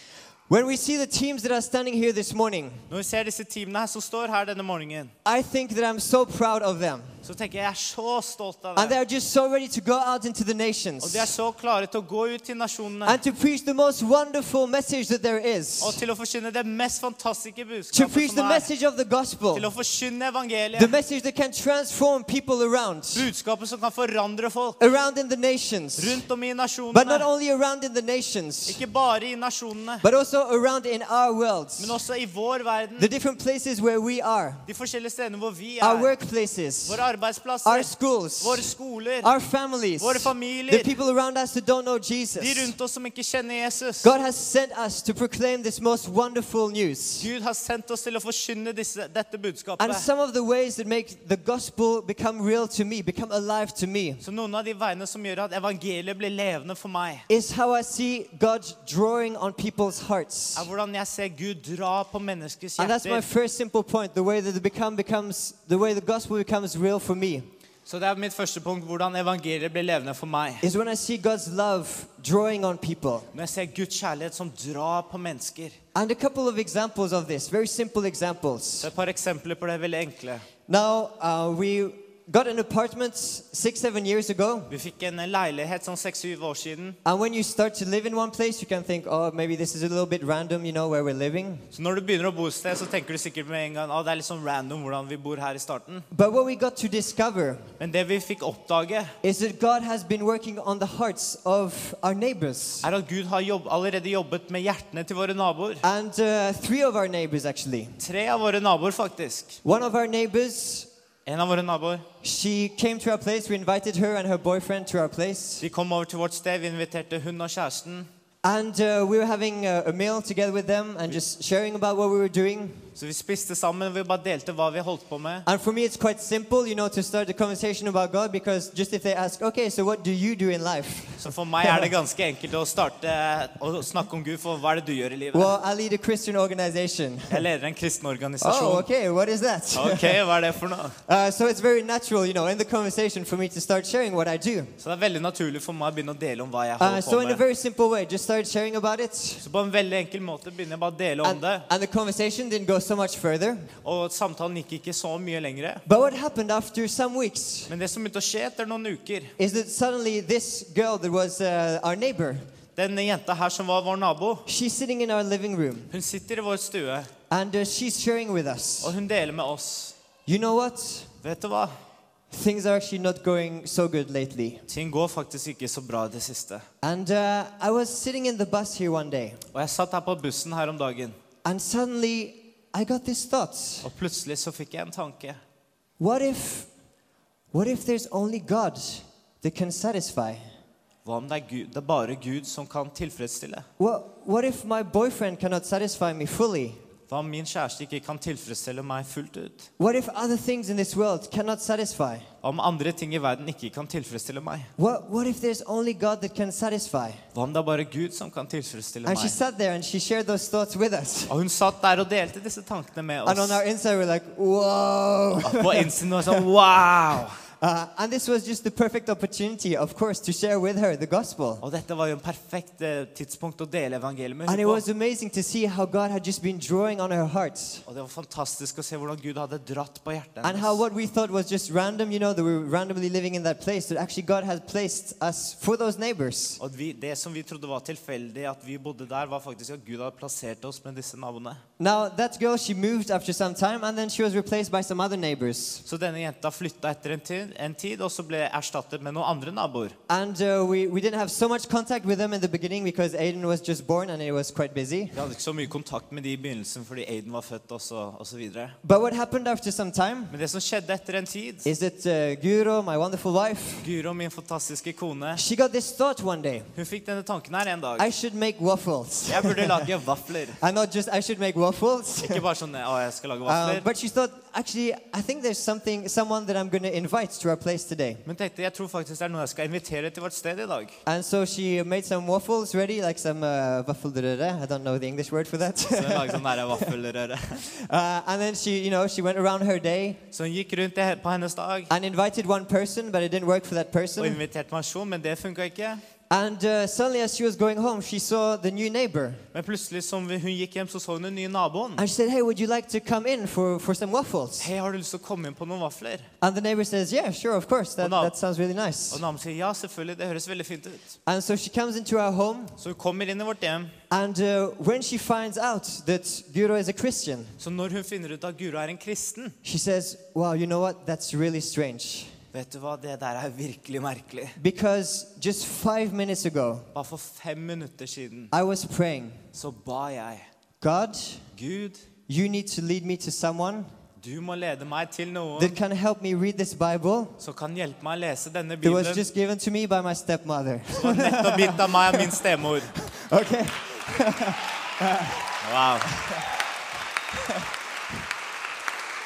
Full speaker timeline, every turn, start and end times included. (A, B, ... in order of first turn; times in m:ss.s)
0:00.5-0:02.9 A
0:02.9-0:05.1 B
0:05.2-0:07.1 A
0:07.2-0:09.0 B
0:08.8-0:11.3 A
0:11.0-0:13.2 B
0:13.0-0:16.0 A
0:15.8-0:18.7 B
0:17.9-0:19.7 A
0:19.5-0:20.9 B
0:20.7-0:23.3 A
0:23.1-0:24.8 B
0:24.8-0:26.2 A
0:26.0-0:27.2 B
0:26.9-0:28.8 A
0:28.7-0:30.0 B
0:30.0-0:32.0 A
0:31.8-0:33.1 B
0:33.0-0:34.6 A
0:34.7-0:36.1 B
0:35.8-0:37.0 A
0:36.8-0:39.3 B
0:37.6-0:38.7 A
0:39.2-0:42.7 A
0:40.0-0:40.9 B
0:42.4-0:44.1 B
0:44.0-0:47.3 A
0:47.2-0:50.0 B
0:49.8-0:54.2 A
0:54.2-0:57.2 B
0:57.3-1:00.7 A
1:00.5-1:03.2 B
1:02.8-1:07.5 A
1:07.8-1:10.6 B
1:10.6-1:13.3 A
1:13.3-1:15.8 B
1:15.9-1:18.9 A
1:18.8-1:20.4 B
1:20.7-1:24.7 A
1:24.7-1:27.0 B
1:27.0-1:31.6 A
1:31.7-1:36.0 B
1:36.1-1:37.7 A
1:37.8-1:39.1 B
1:39.2-1:42.9 A
1:42.8-1:45.8 B
1:45.8-1:47.9 A
1:48.0-1:49.6 B
1:49.6-1:50.9 A
1:51.2-1:52.0 B
1:52.2-1:55.6 A
1:55.6-1:58.1 B
1:58.4-2:02.9 A
2:03.0-2:05.4 B
2:05.4-2:11.9 A
2:11.2-2:15.5 B
2:15.3-2:17.5 A
2:17.3-2:18.9 B
2:18.4-2:20.4 A
2:19.7-2:21.0 B
2:21.0-2:24.7 A
2:24.8-2:27.4 B
2:26.8-2:29.4 A
2:29.4-2:31.6 B
2:31.2-2:33.7 A
2:33.8-2:35.8 B
2:35.8-2:37.7 A
2:37.7-2:39.3 B
2:39.4-2:42.5 A
2:42.8-2:44.4 B
2:44.5-2:45.9 A
2:45.9-2:47.1 B
2:47.3-2:49.0 A
2:48.8-2:49.9 B
2:50.2-2:51.1 A
2:51.2-2:51.7 B
2:52.3-2:54.6 A
2:54.7-2:56.6 B
2:56.8-2:59.4 A
2:59.5-3:01.2 B
3:01.4-3:03.9 A
3:03.8-3:05.4 B
3:06.0-3:06.7 A
3:07.5-3:10.4 A
3:11.0-3:13.6 B
3:13.8-3:16.8 A
3:17.1-3:19.7 B
3:19.8-3:22.3 A
3:22.4-3:24.7 B
3:24.8-3:27.2 A
3:27.3-3:29.4 B
3:29.0-3:31.3 A
3:31.3-3:33.6 B
3:33.2-3:36.4 A
3:35.4-3:37.4 B
3:37.6-3:41.6 A
3:41.6-3:44.8 B
3:44.4-3:47.8 A
3:47.8-3:50.8 B
3:50.4-3:56.6 A
3:56.6-4:01.6 B
4:01.8-4:05.8 A
4:05.8-4:09.9 B
4:10.1-4:15.2 A
4:15.1-4:18.8 B
4:18.8-4:20.3 A
4:20.3-4:21.7 B
4:21.6-4:23.9 A
4:23.8-4:25.4 B
4:25.3-4:26.7 A
4:26.8-4:28.1 B
4:28.0-4:29.9 A
4:29.3-4:30.6 B
4:30.6-4:32.4 A
4:32.2-4:33.8 B
4:33.4-4:38.2 A
4:38.2-4:41.0 B
4:41.0-4:46.9 A
4:45.9-4:47.6 B
4:47.6-4:50.2 A
4:50.3-4:51.9 B
4:51.9-4:54.4 A
4:54.2-4:56.0 B
4:56.3-4:59.4 A
4:59.5-5:02.0 B
5:02.0-5:04.7 A
5:04.6-5:06.3 B
5:06.4-5:09.2 A
5:08.0-5:08.3 B
5:09.1-5:11.2 B
5:11.2-5:12.8 A
5:12.8-5:13.9 B
5:14.1-5:17.6 A
5:17.6-5:19.6 B
5:19.6-5:22.3 A
5:22.5-5:24.6 B
5:24.6-5:26.9 A
5:26.9-5:28.5 B
5:28.5-5:29.4 A
5:29.5-5:30.5 B
5:30.8-5:31.5 A
5:31.5-5:32.0 B
5:32.3-5:33.9 A
5:34.2-5:35.8 B
5:35.6-5:37.4 A
5:37.4-5:39.2 B
5:38.8-5:42.4 A
5:41.0-5:42.9 B
5:42.9-5:45.5 A
5:45.6-5:46.1 B
5:46.1-5:46.4 A